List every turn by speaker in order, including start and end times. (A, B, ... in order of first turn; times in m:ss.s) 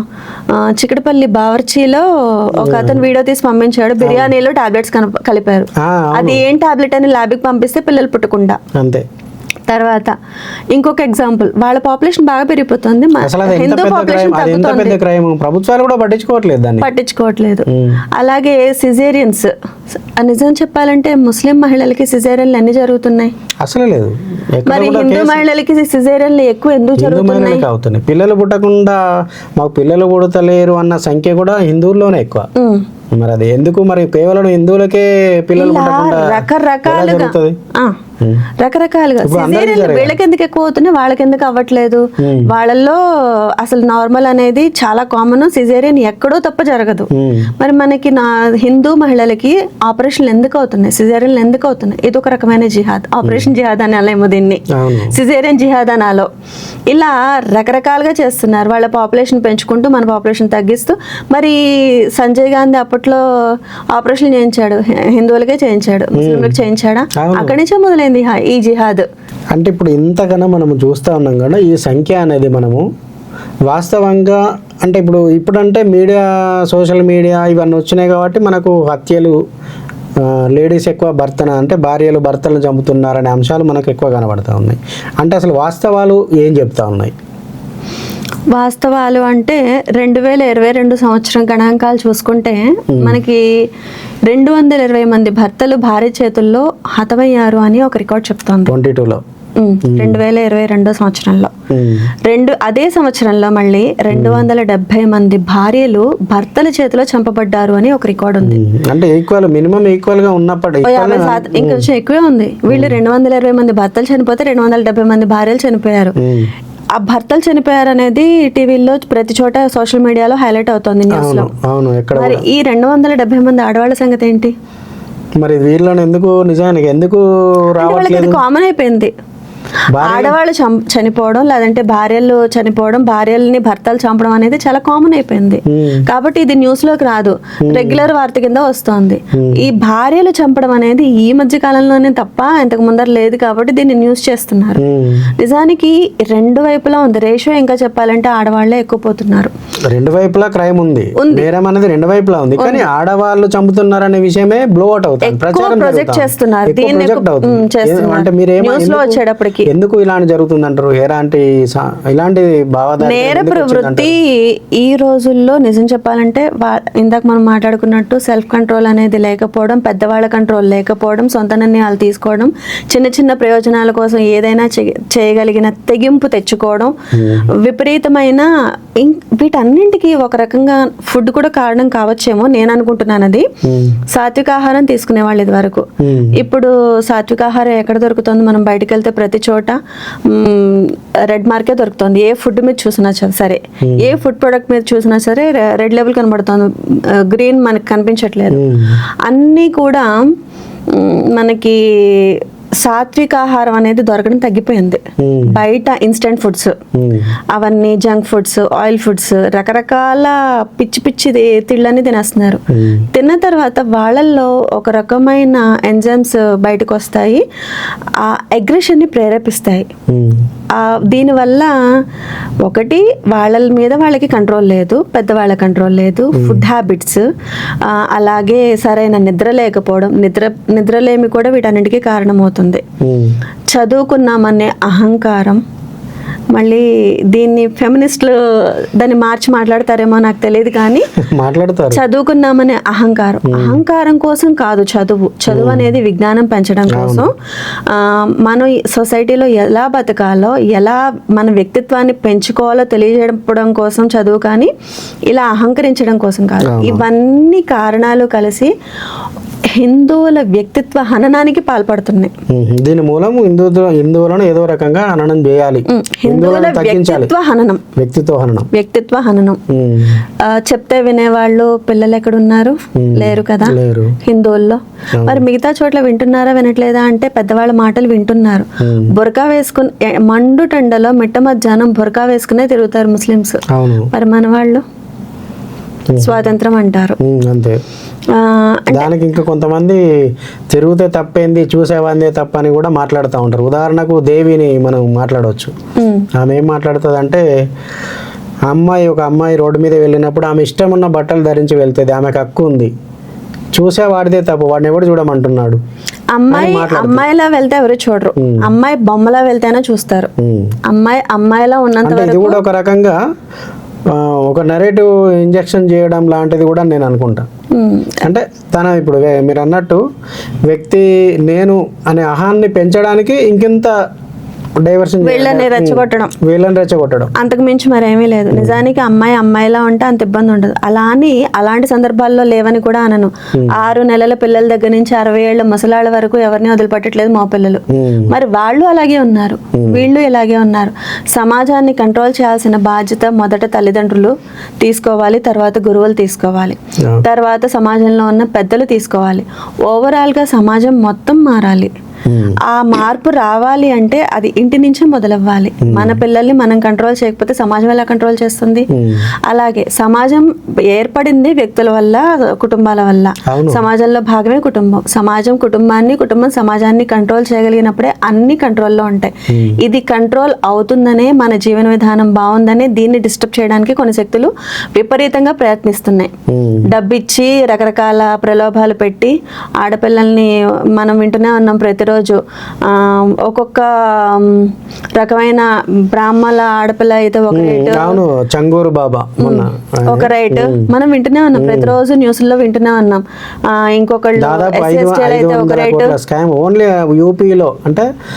0:00.5-0:08.6 A
0:02.6-0:03.0 B
0:04.0-0:04.3 B
0:05.8-0:06.4 B
0:08.8-0:09.0 B
0:09.7-0:10.2 A
0:10.7-0:15.0 A
0:13.2-0:16.9 B
0:16.8-0:19.5 A
0:17.7-0:18.0 B
0:20.2-0:23.3 A
0:23.6-0:25.4 B
0:24.7-0:27.6 A
0:27.0-0:29.0 B
0:29.6-0:32.5 B
0:32.6-0:32.9 A
0:33.1-0:37.6 B
0:35.6-0:38.0 A
0:38.2-0:38.4 B
0:38.6-0:56.3 A
0:39.2-0:40.2 B
0:42.2-0:42.5 B
0:47.2-0:47.5 B
0:53.2-0:53.5 B
0:54.8-0:55.1 B
0:56.9-1:01.6 A
1:02.2-1:03.2 A
1:03.9-1:09.1 A
1:06.2-1:06.6 B
1:07.2-1:07.6 B
1:09.5-1:12.9 B
1:13.7-1:19.4 B
1:20.2-1:27.1 B
1:28.5-1:33.4 A
1:32.9-1:33.2 B
1:34.3-1:38.8 A
1:38.7-1:39.2 B
1:39.6-1:41.5 A
1:39.8-1:40.2 B
1:41.7-1:42.1 B
1:42.2-1:48.6 A
1:44.1-1:44.5 B
1:48.4-1:51.9 B
1:50.8-1:56.2 A
1:52.7-1:53.0 B
1:56.2-1:56.5 B
1:57.0-2:01.5 A
2:01.1-2:02.4 B
2:02.1-2:04.5 A
2:05.4-2:08.4 B
2:07.8-2:09.1 A
2:09.9-2:10.4 B
2:10.0-2:24.8 A
2:15.7-2:16.0 B
2:17.6-2:18.0 B
2:19.4-2:19.6 B
2:24.8-2:25.3 B
2:25.4-2:29.5 A
2:29.9-2:44.1 B
2:31.2-2:31.5 A
2:32.6-2:32.9 A
2:35.2-2:39.7 A
2:43.0-2:57.0 A
2:57.1-2:57.5 B
2:57.6-3:03.5 A
3:03.6-3:04.0 B
3:04.1-3:18.7 A
3:06.0-3:06.4 B
3:18.5-3:19.0 B
3:19.2-3:20.2 A
3:20.9-3:26.8 A
3:25.2-3:25.6 B
3:27.0-3:27.3 B
3:27.5-3:32.6 A
3:32.7-3:33.1 B
3:33.1-3:37.4 A
3:38.2-3:39.9 A
3:40.1-3:40.4 B
3:40.7-3:41.7 A
3:42.6-3:47.3 A
3:46.3-3:46.7 B
3:47.8-3:52.8 A
3:53.0-3:53.4 B
3:53.7-3:55.6 A
3:56.6-4:01.1 A
4:01.3-4:02.0 B
4:01.9-4:07.3 A
4:03.4-4:03.8 B
4:05.5-4:05.9 B
4:06.9-4:07.3 B
4:07.9-4:14.7 A
4:15.3-4:18.7 A
4:16.6-4:17.0 B
4:19.8-4:22.3 A
4:22.5-4:27.3 B
4:25.9-4:27.8 A
4:28.0-4:28.7 B
4:28.7-4:29.6 A
4:29.7-4:30.2 B
4:30.4-4:43.6 A
4:33.0-4:34.2 B
4:35.2-4:35.4 B
4:38.8-4:39.1 B
4:43.7-4:44.1 B
4:44.1-4:44.8 A
4:46.1-4:46.4 B
4:46.2-4:47.2 A
4:47.2-4:47.8 B
4:48.3-4:49.1 A
4:48.9-4:50.0 B
4:50.7-4:55.7 B
4:56.0-4:56.3 A
4:56.4-4:57.4 B
4:58.7-5:02.9 B
5:03.8-5:05.8 B
5:06.3-5:10.3 A
5:06.5-5:07.2 B
5:08.4-5:08.7 B
5:10.4-5:10.7 B
5:10.9-5:12.6 A
5:12.0-5:13.2 B
5:14.1-5:17.5 B
5:17.7-5:18.3 A
5:18.2-5:20.0 B
5:20.7-5:23.9 B
5:24.8-5:27.3 B
5:25.2-5:26.3 A
5:27.4-5:51.9 A
5:28.5-5:28.8 B
5:37.9-5:38.3 B
5:39.8-5:40.1 B
5:52.3-5:52.6 B
5:52.6-5:58.9 A
5:55.9-5:56.2 B
5:58.9-5:59.3 B
5:59.5-6:16.3 A
6:03.5-6:03.8 B
6:09.5-6:09.8 B
6:16.5-6:16.9 B
6:16.9-6:28.2 A
6:27.5-6:30.9 B
6:29.4-6:36.2 A
6:31.5-6:32.0 B
6:34.4-6:38.1 B